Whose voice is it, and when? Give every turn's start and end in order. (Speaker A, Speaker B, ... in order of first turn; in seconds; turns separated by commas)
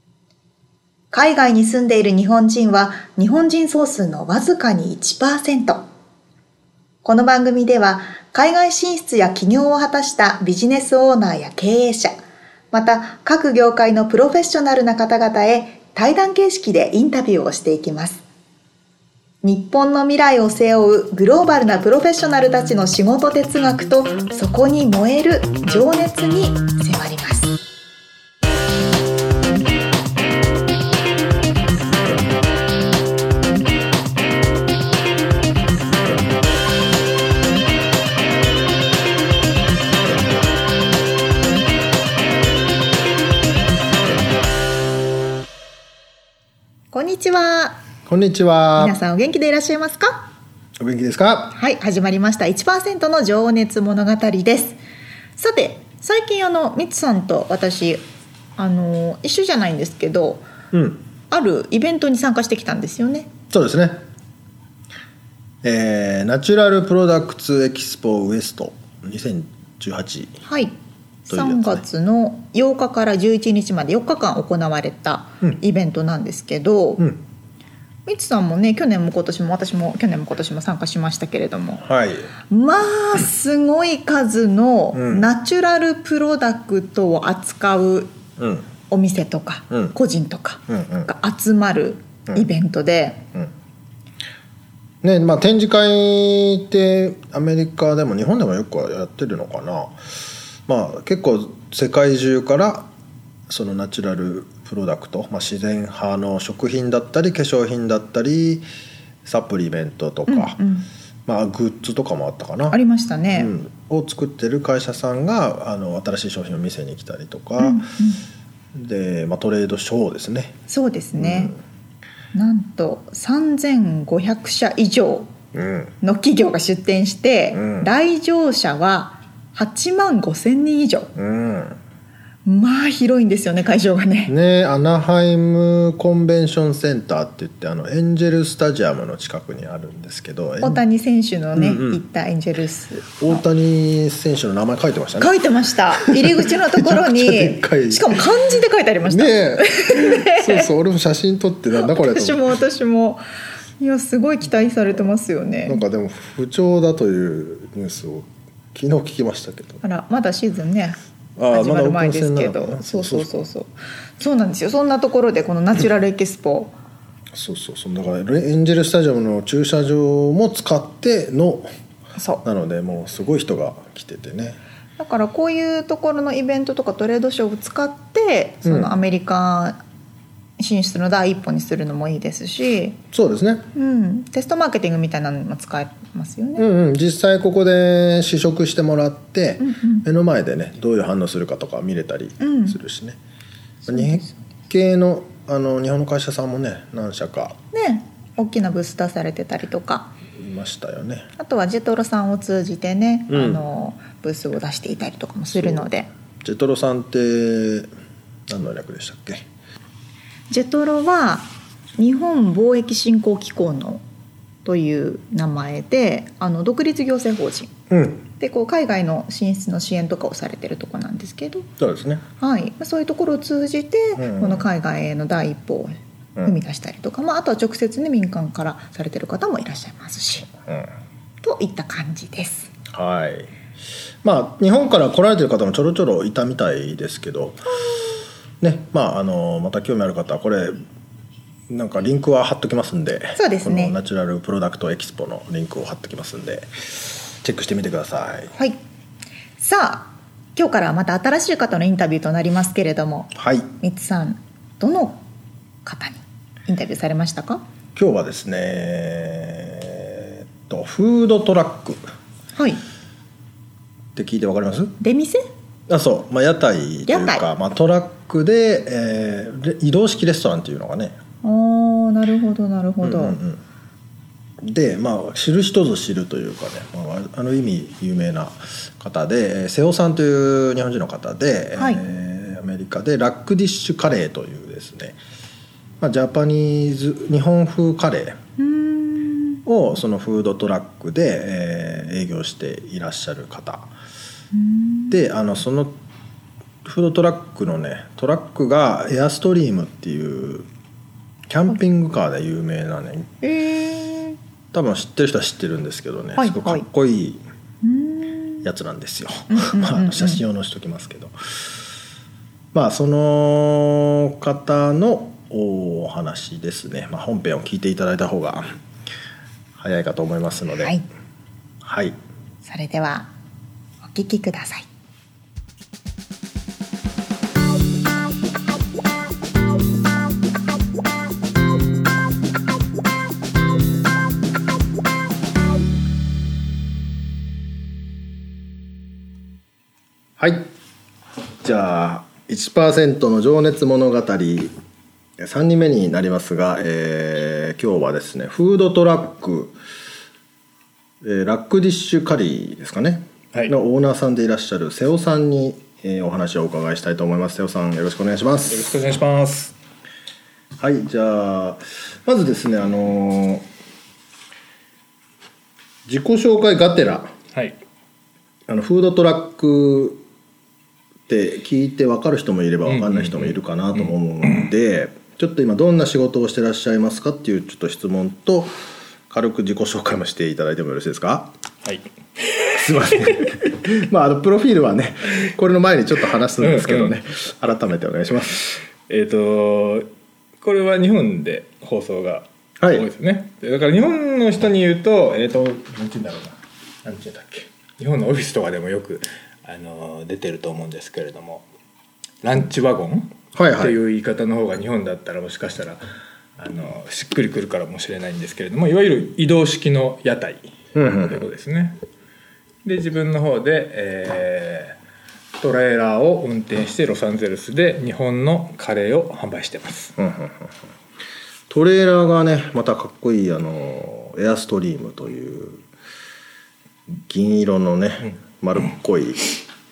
Speaker A: 1.1-5.8, Speaker A: 7.0-12.2, Speaker A: 12.7-18.2, Speaker A: 19.4-27.6, Speaker A: 46.9-47.8, Speaker B: 48.1-49.0, Speaker A: 48.8-50.3, Speaker B: 50.8-51.5, Speaker A: 51.5-54.8, Speaker A: 55.4-58.0, Speaker A: 58.6-60.5, Speaker B: 60.7-61.0, Speaker A: 61.3-63.3, Speaker B: 63.5-64.0, Speaker B: 65.6-70.4, Speaker A: 70.5-77.1, Speaker B: 71.3-71.8, Speaker A: 78.1-81.9, Speaker B: 81.8-82.3, Speaker A: 82.5-88.1, Speaker B: 84.9-85.3, Speaker B: 88.4-88.7, Speaker A: 88.9-93.2, Speaker B: 90.7-91.1, Speaker B: 95.0-102.9, Speaker B: 103.5-108.7, Speaker B: 109.2-110.6, Speaker A: 110.3-110.9, Speaker B: 111.3-112.8, Speaker A: 112.7-113.5, Speaker B: 113.3-117.9, Speaker A: 117.6-118.2, Speaker B: 118.7-120.5, Speaker A: 120.7-121.5, Speaker B: 121.2-121.6, Speaker A: 122.3-125.3, Speaker B: 125.5-126.0, Speaker A: 126.0-131.1, Speaker B: 127.5-127.9, Speaker B: 131.2-131.8, Speaker A: 132.4-134.3, Speaker B: 134.3-140.8, Speaker A: 140.6-143.4, Speaker B: 141.6-142.0, Speaker B: 143.2-145.3, Speaker A: 145.2-150.7, Speaker B: 145.9-148.2, Speaker B: 149.1-152.6, Speaker A: 151.8-153.2, Speaker A: 153.8-155.8, Speaker B: 155.7-159.8, Speaker A: 159.8-161.0, Speaker B: 161.4-163.5, Speaker A: 161.5-166.7, Speaker B: 167.3-171.7, Speaker A: 172.2-172.4, Speaker B: 172.4-174.6, Speaker A: 175.0-179.8, Speaker B: 178.7-178.9, Speaker A: 180.6-183.0, Speaker B: 183.1-183.7, Speaker A: 183.7-186.7, Speaker B: 186.6-193.2, Speaker A: 189.6-190.1, Speaker A: 192.4-192.8, Speaker A: 193.8-194.3, Speaker B: 193.9-197.6, Speaker A: 197.7-200.1, Speaker B: 200.4-201.3, Speaker A: 201.4-206.1, Speaker B: 203.3-203.6, Speaker B: 205.5-205.9, Speaker B: 206.4-207.9, Speaker B: 208.5-209.5, Speaker A: 210.5-214.0, Speaker A: 214.7-217.7, Speaker B: 217.9-218.2, Speaker A: 218.4-221.7, Speaker B: 221.8-222.2, Speaker A: 222.4-230.5, Speaker B: 224.2-224.7, Speaker A: 231.4-232.7, Speaker B: 232.9-233.5, Speaker B: 234.2-237.6, Speaker B: 238.6-240.8, Speaker B: 241.7-248.5, Speaker A: 243.3-244.0, Speaker A: 248.6-248.8, Speaker A: 249.6-255.2, Speaker B: 253.3-253.7, Speaker A: 255.8-257.6, Speaker B: 257.9-262.0, Speaker A: 262.6-262.8, Speaker B: 264.1-265.0, Speaker A: 265.0-265.5, Speaker B: 265.9-271.2, Speaker A: 267.1-267.4, Speaker A: 271.4-273.4, Speaker B: 273.0-273.6, Speaker B: 274.6-285.2, Speaker B: 286.0-288.4, Speaker A: 288.6-289.6, Speaker B: 289.7-293.9, Speaker A: 294.5-295.2, Speaker B: 295.1-295.9, Speaker B: 296.8-300.7, Speaker B: 301.5-303.3, Speaker A: 303.4-304.4, Speaker B: 304.7-307.4, Speaker A: 306.4-306.9, Speaker A: 307.8-308.6, Speaker B: 308.6-311.7, Speaker A: 309.5-310.4, Speaker B: 312.7-318.7, Speaker B: 319.8-320.9, Speaker B: 321.8-322.2, Speaker A: 322.6-323.3, Speaker A: 324.0-324.9, Speaker B: 340.4-340.7, Speaker B: 341.6-344.7, Speaker B: 345.4-349.8, Speaker B: 351.2-358.9, Speaker C: 358.7-359.7, Speaker B: 360.8-363.7, Speaker B: 366.1-367.3, Speaker B: 368.7-370.2, Speaker B: 371.3-378.7, Speaker C: 372.9-374.7, Speaker B: 379.3-381.5, Speaker C: 381.9-383.4, Speaker B: 382.7-388.9, Speaker C: 386.6-387.2, Speaker C: 389.1-390.1, Speaker C: 390.6-401.6, Speaker B: 392.8-393.1, Speaker C: 402.4-406.0, Speaker B: 403.6-404.0, Speaker C: 406.6-412.0, Speaker B: 410.9-411.5, Speaker C: 412.9-415.0, Speaker C: 415.6-420.1, Speaker B: 420.2-420.7, Speaker B: 421.7-425.8, Speaker B: 427.1-429.6